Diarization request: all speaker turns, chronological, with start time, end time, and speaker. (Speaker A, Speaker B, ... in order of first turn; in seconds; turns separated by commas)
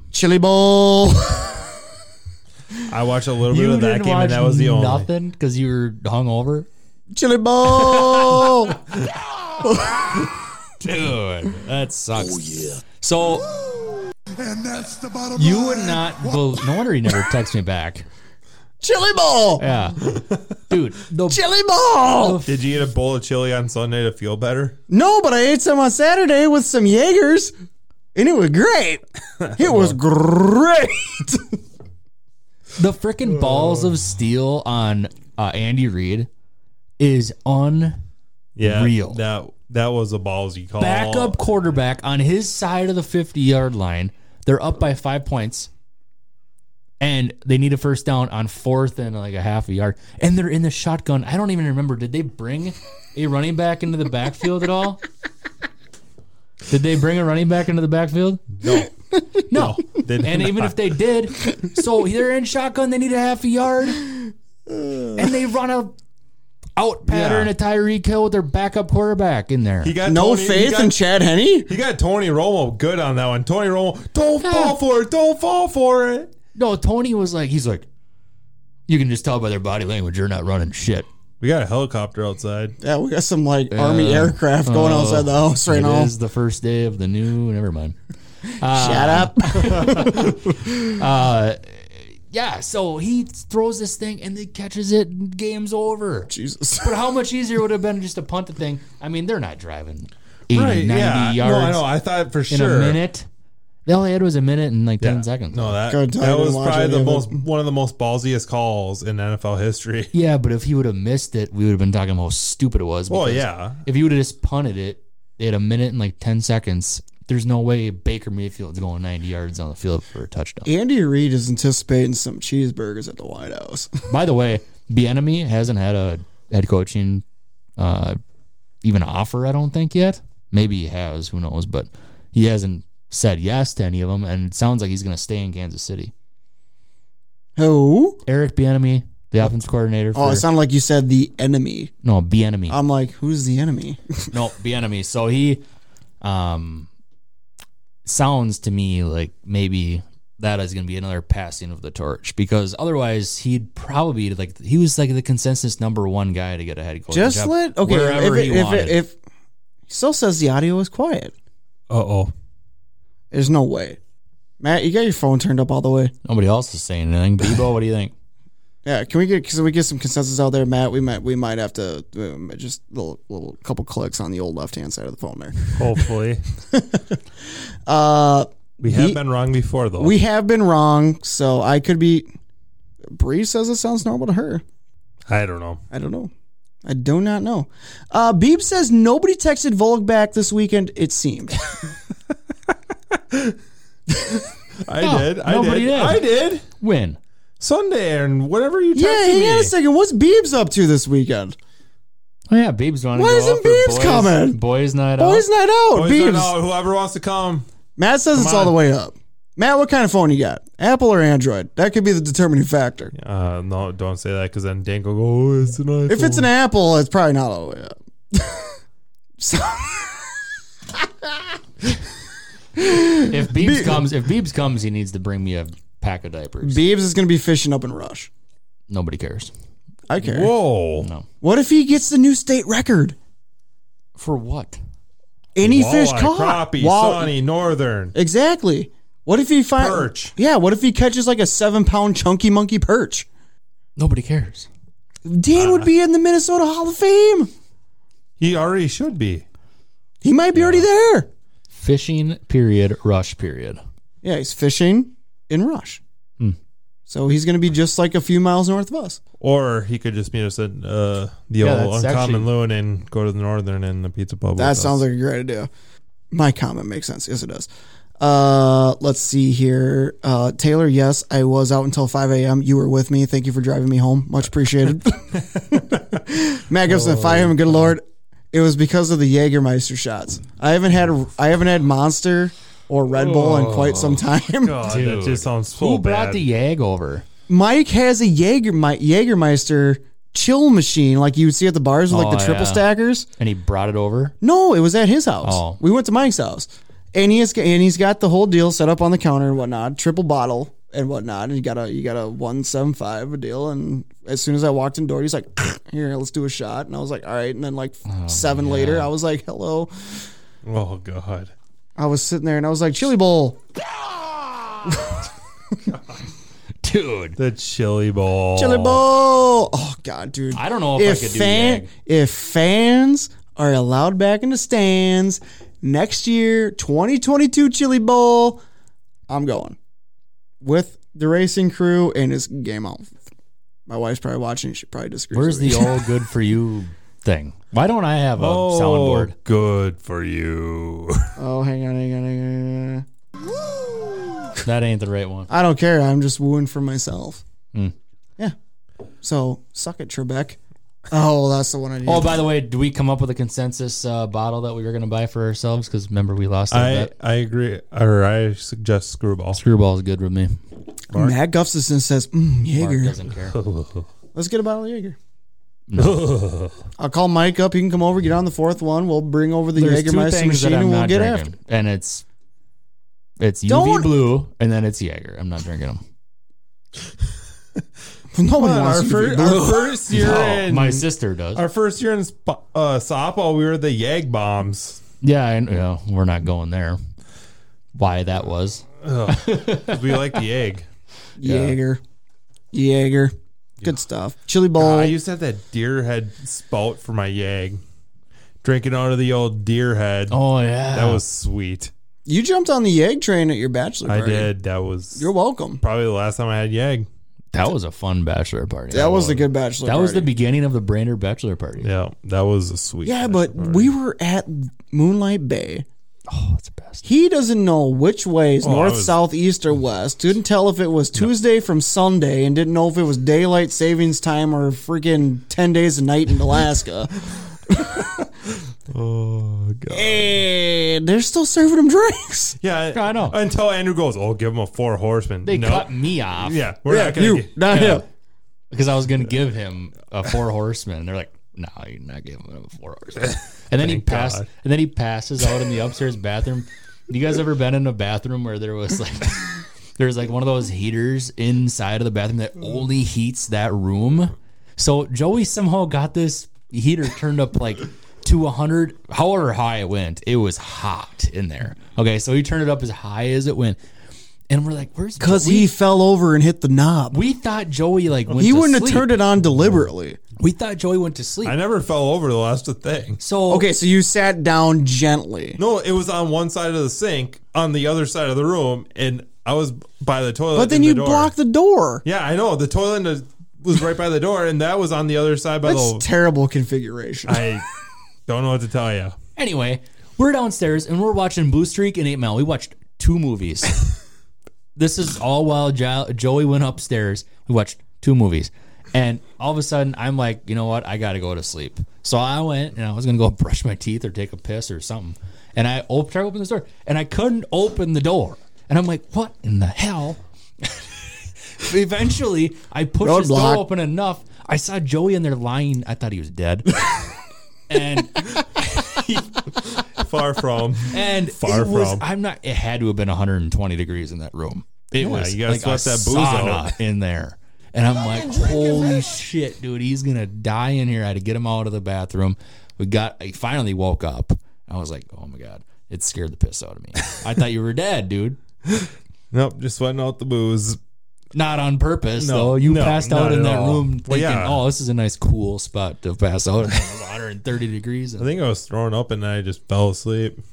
Speaker A: 0.1-1.7, Speaker B: 2.9-5.1, Speaker C: 3.5-6.7, Speaker A: 7.1-8.8, Speaker B: 7.9-8.6, Speaker A: 9.6-10.3, Speaker C: 10.8-13.5, Speaker D: 14.4-16.7, Speaker C: 15.3-18.1, Speaker A: 18.8-19.6, Speaker C: 19.6-20.1, Speaker C: 20.7-21.4, Speaker A: 21.3-22.4, Speaker C: 22.1-22.6, Speaker B: 22.4-24.8, Speaker A: 24.9-27.5, Speaker A: 28.1-29.0, Speaker B: 29.4-30.0, Speaker A: 29.6-31.6, Speaker C: 32.8-36.3, Speaker B: 33.4-33.9, Speaker C: 37.0-38.0, Speaker B: 38.6-41.4, Speaker C: 38.6-39.2, Speaker C: 40.8-45.7, Speaker C: 47.0-55.0, Speaker C: 56.7-58.5, Speaker B: 58.6-58.9, Speaker B: 59.5-60.9, Speaker C: 59.5-64.0, Speaker A: 64.7-65.2, Speaker C: 65.1-65.9, Speaker C: 66.8-69.9, Speaker B: 67.1-67.5, Speaker B: 69.8-71.0, Speaker A: 70.0-71.7, Speaker B: 71.7-76.3, Speaker C: 74.4-74.8, Speaker C: 76.5-77.8, Speaker C: 78.9-81.1, Speaker B: 81.4-82.8, Speaker A: 82.8-86.1, Speaker C: 83.7-88.0, Speaker C: 88.5-101.8, Speaker A: 88.6-90.8, Speaker A: 96.3-96.9, Speaker B: 100.5-103.0, Speaker C: 102.5-103.3, Speaker C: 103.8-105.8, Speaker B: 105.0-110.1, Speaker A: 105.8-107.4, Speaker C: 110.1-120.7, Speaker B: 113.1-113.8, Speaker A: 120.6-124.0, Speaker C: 124.1-127.2, Speaker C: 127.8-128.2, Speaker C: 128.8-136.1, Speaker A: 137.6-138.2, Speaker C: 138.3-140.4, Speaker A: 140.1-141.9, Speaker C: 142.0-142.8, Speaker A: 142.7-144.3, Speaker C: 144.3-145.6, Speaker C: 146.2-146.9, Speaker C: 148.1-159.0, Speaker A: 157.1-159.2, Speaker A: 159.9-161.3, Speaker B: 161.9-162.3, Speaker A: 163.3-164.0, Speaker A: 164.6-166.1, Speaker C: 166.2-168.1, Speaker A: 168.8-176.1, Speaker B: 175.7-176.4, Speaker A: 176.7-177.2, Speaker A: 177.9-179.2, Speaker B: 178.8-180.1, Speaker A: 180.0-182.3, Speaker A: 183.1-184.6, Speaker B: 185.3-185.8, Speaker A: 185.9-186.3, Speaker A: 186.8-191.6, Speaker B: 194.8-196.6, Speaker C: 195.0-197.2, Speaker B: 197.6-199.7, Speaker A: 198.9-201.6, Speaker C: 202.5-205.4, Speaker A: 203.1-204.6, Speaker A: 205.2-206.5, Speaker B: 205.9-207.7, Speaker A: 208.0-213.1, Speaker B: 208.3-208.8, Speaker B: 213.1-216.5, Speaker A: 216.1-218.7, Speaker A: 219.4-222.0, Speaker A: 222.8-224.0, Speaker C: 223.3-226.8, Speaker A: 226.6-228.3, Speaker C: 228.9-229.5, Speaker A: 230.1-230.5, Speaker B: 230.2-231.1, Speaker C: 231.0-231.2, Speaker A: 231.4-233.2, Speaker C: 234.2-234.8, Speaker A: 235.6-237.3, Speaker B: 235.6-238.1, Speaker A: 238.1-243.3, Speaker B: 239.8-240.3, Speaker C: 244.0-244.7, Speaker A: 245.2-247.5, Speaker B: 245.5-245.9, Speaker B: 248.4-249.4, Speaker A: 250.2-251.3, Speaker C: 251.7-253.8, Speaker A: 254.2-256.0, Speaker A: 257.1-259.2, Speaker B: 259.4-265.0, Speaker C: 261.6-262.5, Speaker A: 264.6-265.7, Speaker A: 266.3-267.7, Speaker A: 268.2-284.9, Speaker B: 276.9-277.6, Speaker B: 283.1-286.4, Speaker C: 284.8-287.2, Speaker A: 287.5-293.2, Speaker C: 292.1-294.3, Speaker A: 294.4-309.9, Speaker C: 295.4-295.8, Speaker C: 308.1-309.1, Speaker B: 310.6-311.5, Speaker A: 312.0-313.6, Speaker A: 314.8-315.2, Speaker B: 315.9-316.2, Speaker C: 316.8-317.4, Speaker B: 317.4-319.0, Speaker A: 318.6-328.6, Speaker C: 320.5-321.9, Speaker A: 329.3-329.8, Speaker A: 330.6-333.2, Speaker A: 333.9-336.0, Speaker C: 335.3-339.3, Speaker B: 338.4-341.3, Speaker A: 341.4-343.0, Speaker A: 343.6-344.6, Speaker C: 344.6-345.5, Speaker A: 345.5-347.4, Speaker A: 349.2-350.6, Speaker A: 351.1-352.4, Speaker C: 352.0-357.1, Speaker B: 356.7-359.6, Speaker C: 359.5-360.6, Speaker A: 361.1-363.2, Speaker C: 362.8-363.6, Speaker B: 363.5-364.1, Speaker A: 364.3-365.2, Speaker C: 365.9-366.2, Speaker B: 366.0-366.7, Speaker A: 367.0-371.5, Speaker C: 369.8-372.2, Speaker C: 373.4-376.0, Speaker A: 373.7-374.1, Speaker A: 378.3-380.0, Speaker B: 378.6-385.0, Speaker C: 380.1-381.6, Speaker C: 385.2-387.0, Speaker C: 387.9-390.2, Speaker B: 389.0-390.9, Speaker A: 391.4-392.0, Speaker C: 391.4-391.8, Speaker A: 392.7-395.2, Speaker B: 394.8-397.8, Speaker B: 398.6-400.4, Speaker C: 400.3-401.2, Speaker B: 400.9-401.9, Speaker A: 402.2-404.5, Speaker B: 404.0-405.3, Speaker A: 405.1-405.8, Speaker B: 405.8-407.1, Speaker C: 407.5-411.9, Speaker A: 408.9-410.3, Speaker B: 411.8-413.9, Speaker A: 413.0-415.9, Speaker C: 416.3-417.0, Speaker A: 417.0-428.1, Speaker B: 418.6-419.2, Speaker B: 428.9-430.4, Speaker A: 429.9-432.6, Speaker B: 432.6-437.5, Speaker C: 432.9-433.4, Speaker C: 435.4-436.7, Speaker A: 436.9-438.0, Speaker C: 437.7-438.0, Speaker C: 438.7-463.8, Speaker B: 443.8-444.4, Speaker C: 464.5-465.7, Speaker A: 465.2-467.2, Speaker C: 467.1-469.1, Speaker A: 468.4-470.2, Speaker C: 470.4-471.6, Speaker B: 471.4-473.2, Speaker C: 473.2-473.7, Speaker A: 473.5-475.6, Speaker B: 475.6-481.3, Speaker A: 480.5-482.0, Speaker B: 482.0-486.1, Speaker A: 485.6-487.5, Speaker B: 487.3-487.6, Speaker B: 488.3-489.1, Speaker C: 489.4-493.8, Speaker C: 494.8-510.9, Speaker C: 511.5-516.8, Speaker A: 513.0-513.6, Speaker C: 517.7-519.5, Speaker B: 519.8-522.0, Speaker C: 520.9-538.4, Speaker B: 525.0-526.7, Speaker B: 539.3-540.8, Speaker C: 541.3-548.3, Speaker B: 542.2-544.6, Speaker B: 548.2-550.4